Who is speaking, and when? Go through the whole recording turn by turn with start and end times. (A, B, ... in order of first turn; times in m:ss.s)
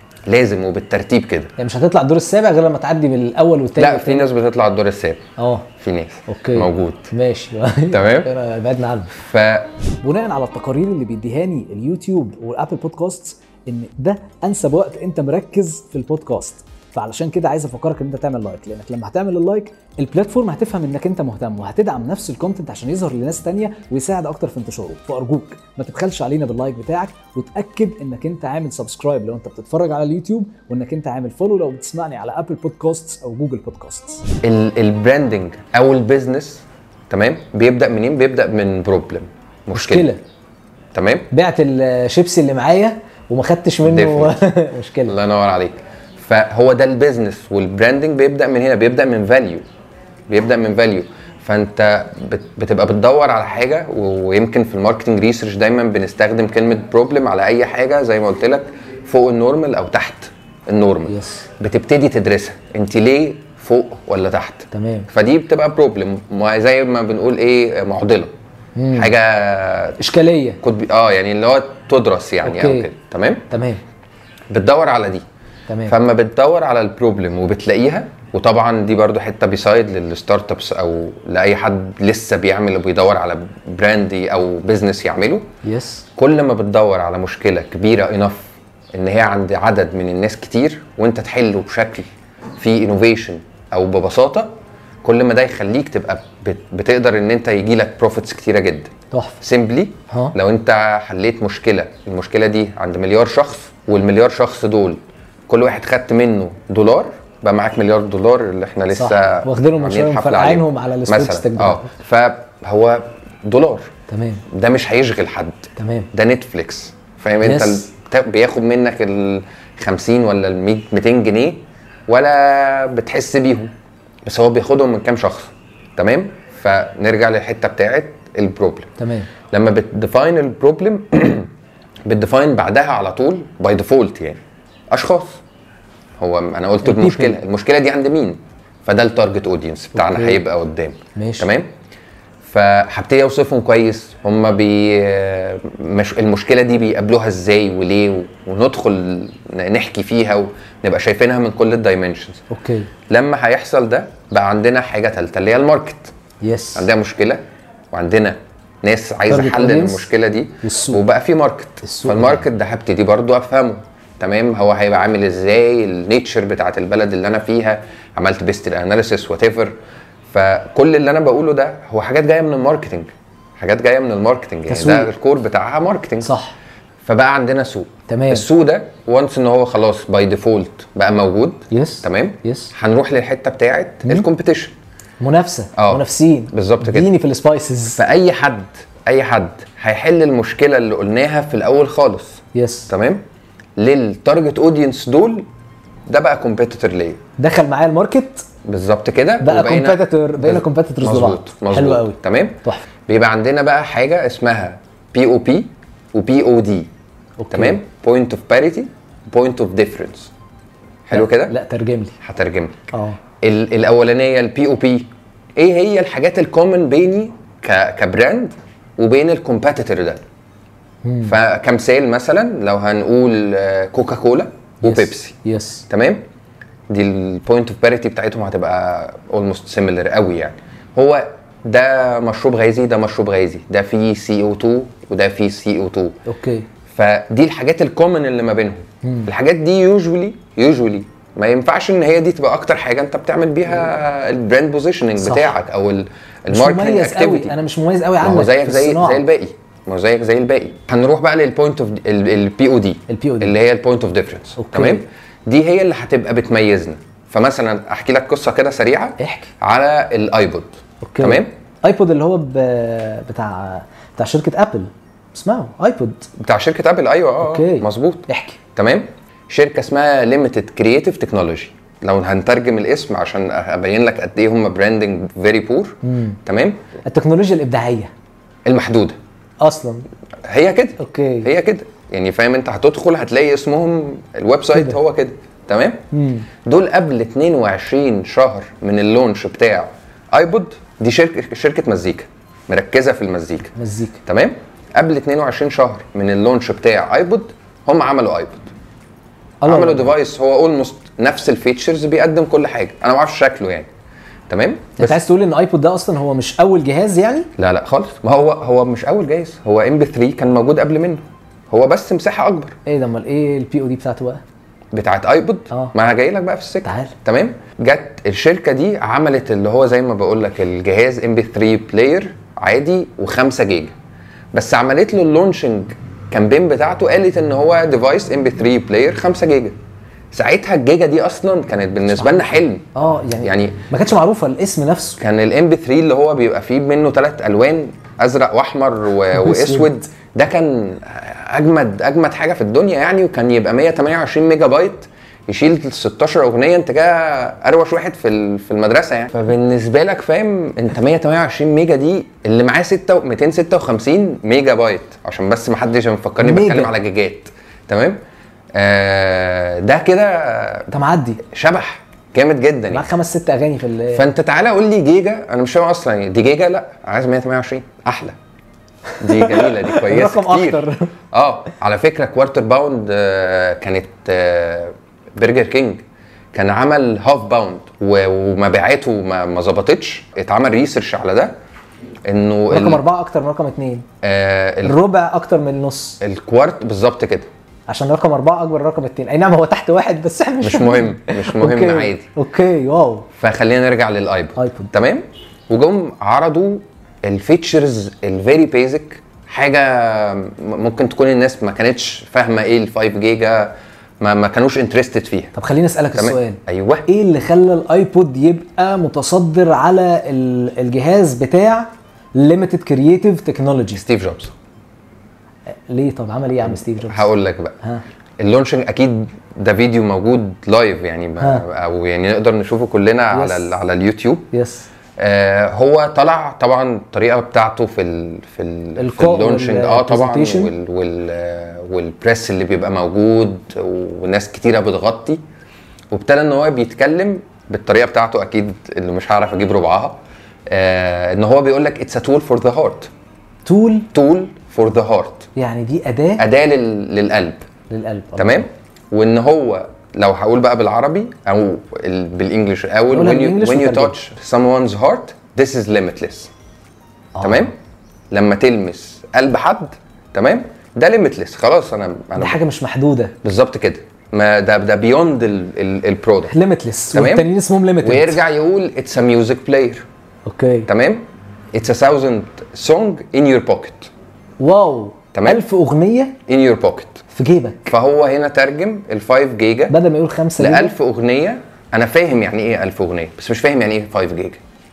0:00.2-0:01.5 A
0:01.6-0:04.3 B
0:03.8-0:05.2 A
0:05.4-0:05.7 B
0:05.8-0:07.1 A
0:06.3-0:09.2 B
0:07.9-0:08.3 A
0:09.1-0:09.7 A
0:10.0-0:34.2 B
0:34.4-0:40.1 A
0:39.7-0:40.2 B
0:40.9-0:41.3 A
0:41.3-0:45.2 B
0:43.8-0:44.3 A
0:45.1-0:49.6 A
0:50.3-1:08.3 A
1:01.1-1:01.5 B
1:04.7-1:05.1 B
1:08.8-1:09.1 B
1:08.9-1:10.0 A
1:10.0-1:10.6 B
1:10.6-1:13.4 A
1:12.4-1:12.9 B
1:13.5-1:13.8 B
1:14.5-1:15.2 A
1:15.7-1:16.0 B
1:15.8-1:25.5 A
1:25.6-1:26.0 B
1:26.2-1:32.0 A
1:32.6-1:34.5 A
1:35.0-1:53.9 A
1:39.1-1:39.4 B
1:40.1-1:40.3 B
1:48.9-1:51.9 B
1:54.1-1:54.4 B
1:54.5-2:03.7 A
1:55.8-1:56.1 B
1:57.4-1:57.9 B
2:04.2-2:08.9 A
2:09.0-2:09.3 B
2:09.5-2:11.5 A
2:12.0-2:14.4 A
2:14.9-2:15.4 A
2:16.2-2:21.7 A
2:16.8-2:17.4 B
2:20.0-2:20.4 B
2:21.1-2:21.5 B
2:22.4-2:32.4 A
2:32.5-2:32.9 B
2:33.1-2:36.1 A
2:36.4-2:36.9 B
2:36.8-2:37.4 A
2:37.9-2:49.7 A
2:39.3-2:40.1 B
2:40.6-2:41.0 B
2:41.8-2:42.4 B
2:50.3-2:56.3 A
2:54.7-2:55.1 B
2:56.2-2:56.6 B
2:57.0-3:04.7 A
2:58.1-2:58.4 B
3:01.7-3:02.7 B
3:05.2-3:08.0 B
3:05.8-3:07.1 A
3:08.0-3:13.2 A
3:12.5-3:12.9 B
3:13.8-3:15.4 A
3:16.1-3:17.2 A
3:17.4-3:18.4 B
3:18.6-3:26.9 A
3:19.4-3:22.8 B
3:27.4-3:27.8 B
3:27.5-3:30.3 A
3:31.1-3:31.5 A
3:31.1-3:32.2 B
3:32.2-3:40.2 A
3:32.9-3:33.2 B
3:41.0-3:41.3 B
3:41.2-3:45.3 A
3:44.8-3:45.8 B
3:45.9-3:46.2 A
3:46.9-3:56.2 A
3:56.2-3:56.7 B
3:56.9-4:07.5 A
3:59.0-3:59.3 B
4:05.2-4:05.5 B
4:06.5-4:09.2 B
4:08.2-4:21.5 A
4:13.1-4:13.5 B
4:14.6-4:15.0 B
4:19.2-4:19.5 B
4:21.0-4:26.3 B
4:26.4-4:36.8 A
4:27.4-4:28.6 B
4:36.0-4:36.4 B
4:37.0-4:38.1 B
4:38.6-4:39.2 A
4:39.6-4:40.0 B
4:40.4-4:46.0 A
4:41.0-4:41.5 B
4:46.1-4:46.5 B
4:46.6-4:53.7 A
4:53.7-4:54.2 B
4:54.2-4:58.6 A
4:59.6-5:00.1 B
4:59.6-5:03.9 A
5:04.5-5:05.2 A
5:05.0-5:07.5 B
5:07.6-5:12.8 A
5:12.8-5:14.4 B
5:14.9-5:23.9 A
5:16.8-5:17.1 B
5:24.5-5:29.8 A
5:30.3-5:32.8 A
5:32.1-5:35.2 B
5:33.4-5:33.8 A
5:35.2-5:58.2 A
5:39.3-5:40.0 B
5:56.4-5:56.9 B
5:58.7-6:03.1 A
6:00.9-6:01.4 B
6:02.9-6:04.2 B
6:04.1-6:08.3 A
6:09.2-6:11.1 B
6:09.2-6:21.5 A
6:22.2-6:23.0 A
6:22.7-6:24.0 B
6:24.2-6:25.0 A
6:24.8-6:26.2 B
6:26.2-6:27.5 A
6:27.9-6:33.3 B
6:30.6-6:32.3 A
6:33.4-6:45.5 A
6:34.6-6:34.9 B
6:45.5-6:54.0 B
6:46.1-6:47.0 A
6:53.9-6:54.5 A
6:55.9-6:58.0 B
6:56.7-6:57.8 A
6:58.4-7:04.5 A
7:03.3-7:03.7 B
7:04.5-7:04.9 B
7:05.2-7:15.4 A
7:09.0-7:10.7 B
7:16.1-7:23.1 A
7:23.6-7:24.1 B
7:24.1-7:25.5 A
7:25.6-7:26.4 B
7:26.4-7:27.6 A
7:27.9-7:28.7 B
7:28.4-7:36.5 A
7:33.1-7:34.1 B
7:37.4-7:37.7 B
7:37.4-7:37.7 A
7:38.3-7:42.6 A
7:42.4-7:43.3 B
7:43.4-7:46.5 A
7:46.5-7:48.4 B
7:47.1-7:47.5 A
7:48.0-7:50.0 A
7:50.4-7:50.9 B
7:50.9-7:54.1 A
7:54.6-7:56.4 B
7:55.3-7:55.6 A
7:56.5-7:57.2 A
7:57.3-7:57.9 B
7:57.9-8:00.0 A
7:59.9-8:00.9 B
8:00.6-8:04.6 A